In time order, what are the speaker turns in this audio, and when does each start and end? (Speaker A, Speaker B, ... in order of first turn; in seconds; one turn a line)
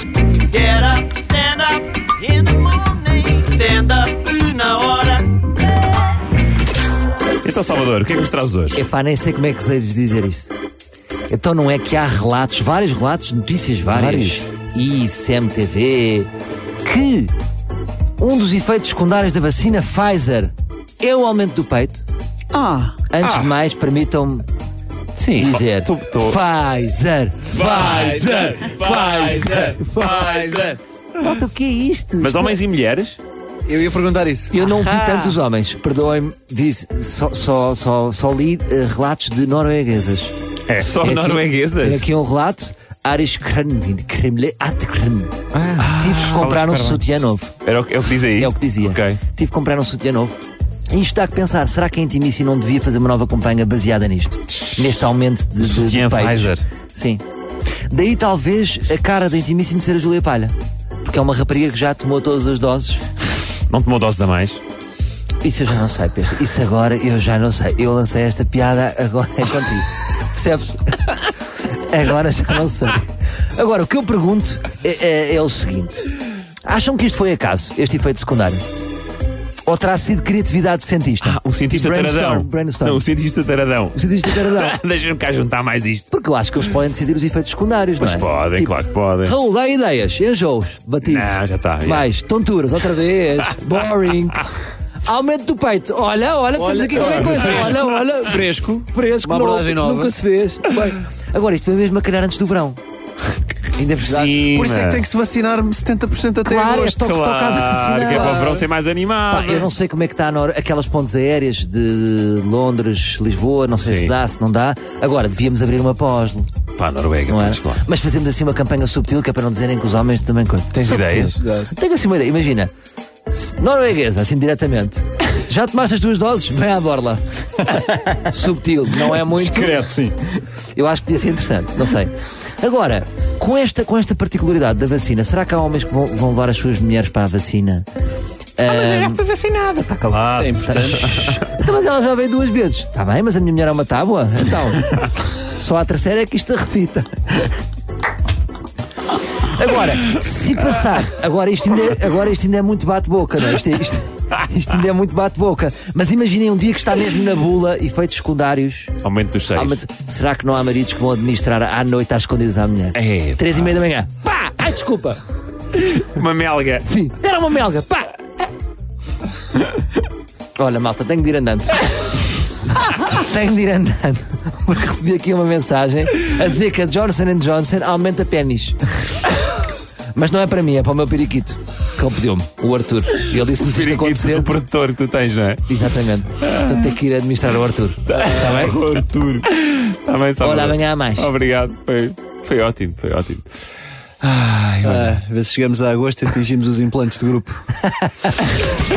Speaker A: 0.5-5.3
Speaker B: 7.4-8.8
Speaker C: 8.7-10.5
Speaker C: 11.3-16.3
Speaker B: 13.9-14.4
Speaker C: 16.8-17.3
Speaker C: 18.2-22.0
Speaker A: 22.5-22.9
Speaker C: 23.1-24.4
Speaker B: 23.2-23.5
Speaker B: 25.2-26.4
Speaker C: 25.3-30.2
Speaker B: 27.5-29.1
Speaker D: 27.8-30.8
Speaker C: 31.2-32.6
Speaker B: 32.2-33.2
Speaker D: 33.7-34.5
Speaker C: 34.5-45.3
Speaker B: 34.6-35.4
Speaker B: 40.7-42.0
Speaker B: 45.5-47.0
Speaker C: 45.8-47.5
Speaker B: 47.6-49.2
Speaker C: 48.4-50.3
Speaker C: 50.9-57.2
Speaker B: 55.6-56.6
Speaker C: 57.9-63.0
Speaker B: 63.7-64.6
Speaker C: 65.4-76.0
Speaker C: 76.6-78.6
Speaker C: 79.7-83.0
Speaker B: 81.2-86.1
Speaker C: 83.9-84.8
Speaker C: 86.1-94.5
Speaker B: 88.0-89.3
Speaker B: 91.0-92.1
Speaker C: 95.0-102.8
Speaker D: 96.6-100.2
Speaker B: 97.0-97.5
Speaker B: 103.8-105.0
Speaker D: 104.0-107.1
Speaker C: 106.4-108.5
Speaker B: 107.0-109.7
Speaker D: 108.0-108.7
Speaker C: 109.3-116.5
Speaker B: 113.8-114.1
Speaker B: 116.8-117.8
Speaker C: 117.3-122.7
Speaker B: 120.7-121.4
Speaker D: 121.4-121.7
Speaker C: 123.3-129.9
Speaker B: 129.1-130.2
Speaker C: 130.7-137.9
Speaker C: 138.6-139.3
Speaker B: 138.7-140.5
Speaker D: 140.3-141.4
Speaker C: 140.6-147.4
Speaker B: 141.1-141.4
Speaker C: 149.4-159.0
Speaker B: 159.0-159.8
Speaker C: 159.5-165.2
Speaker B: 162.9-163.8
Speaker B: 165.7-166.9
Speaker C: 166.8-168.1
Speaker C: 170.6-179.2
Speaker C: 180.2-184.6
Speaker B: 183.4-185.6
Speaker C: 185.7-188.8
Speaker B: 186.4-186.9
Speaker B: 188.1-193.5
Speaker C: 190.4-191.3
Speaker C: 194.2-195.1
Speaker D: 194.8-197.6
Speaker C: 197.9-198.3